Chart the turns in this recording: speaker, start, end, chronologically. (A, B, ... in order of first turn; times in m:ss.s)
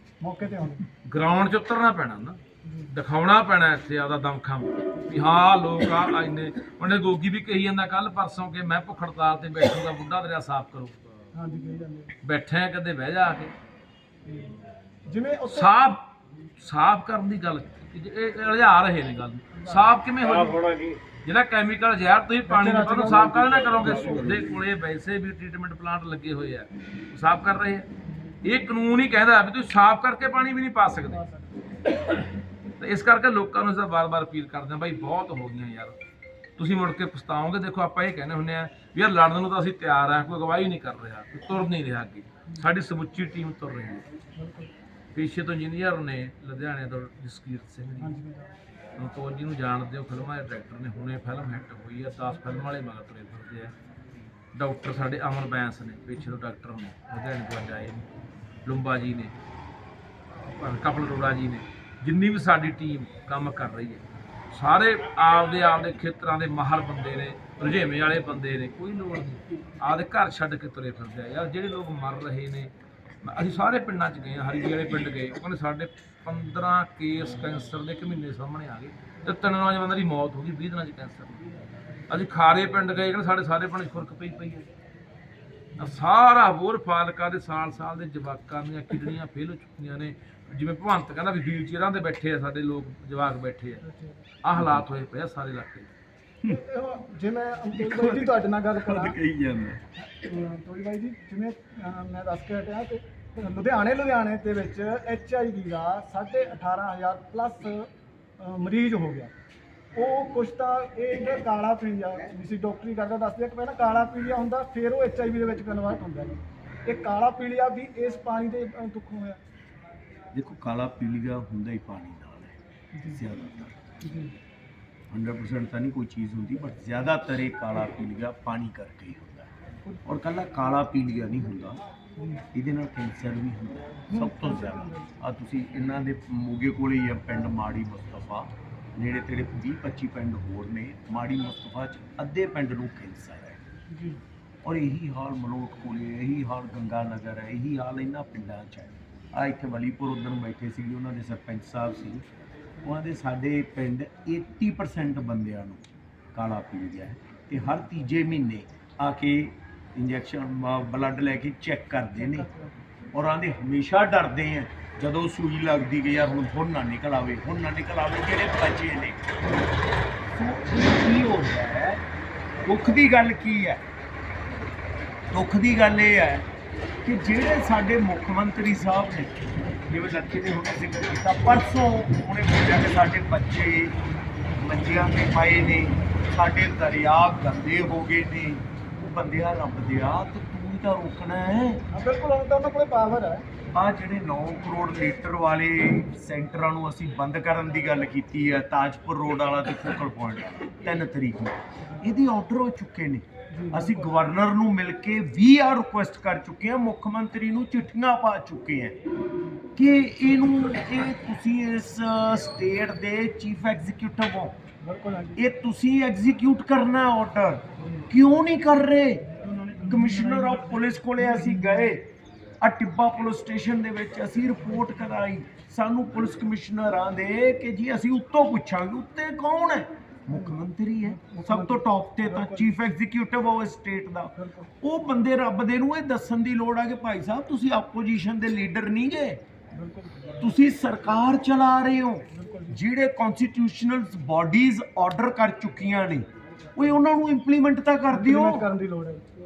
0:00.2-0:00.8 A
0:01.0-0:02.4 B
0:02.9-0:10.9 B
0:11.3-0:12.1 A
0:12.2-0:13.5 B
0:14.2-0:14.5 A
0:15.1-0:15.8 A
0:15.5-0:16.0 B
0:16.6-0:27.9 B
0:19.5-0:19.8 A
0:22.5-0:24.3 A
0:28.4-0:31.2 B
0:31.1-0:31.4 A
0:32.8-0:35.9 B
0:36.6-0:44.0 B
0:44.4-0:44.7 A
0:45.1-0:48.2 B
0:48.0-0:48.5 A
0:49.0-0:53.7 B
0:54.5-0:58.0 B
0:58.6-0:59.3 B
1:00.6-1:12.7 B
1:13.2-1:21.5 B
1:22.1-1:24.6 B
1:25.8-1:33.8 B
1:33.8-1:34.1 A
1:34.4-1:35.9 B
1:36.4-1:39.2 A
1:37.8-1:39.8 C
1:40.2-1:49.3 A
1:49.9-1:59.4 A
2:00.3-2:02.6 C
2:02.9-2:03.2 A
2:03.1-2:03.8 C
2:04.0-2:04.3 A
2:05.1-2:09.5 C
2:10.0-2:11.8 C
2:12.2-2:12.4 A
2:12.5-2:23.6 C
2:14.1-2:15.1 A
2:23.9-2:24.2 A
2:24.6-2:32.2 C
2:32.8-2:42.5 C
2:42.2-2:42.7 A
2:43.1-2:49.4 C
2:50.3-2:52.0 C
2:52.6-2:53.8 C
2:55.3-2:56.5 C
2:57.0-3:04.0 C
3:04.5-3:11.8 C
3:11.9-3:13.4 A
3:13.7-3:29.0 C
3:23.5-3:24.1 A
3:29.8-3:34.6 C
3:34.8-3:35.4 A
3:35.4-3:39.2 C
3:39.5-3:40.4 A
3:39.8-3:42.1 C
3:41.4-3:41.8 A
3:42.6-3:59.4 C
3:51.0-3:52.7 A
3:54.4-3:54.7 A
3:59.7-4:00.4 A
4:00.4-4:08.7 C
4:02.3-4:02.8 A
4:08.1-4:09.2 A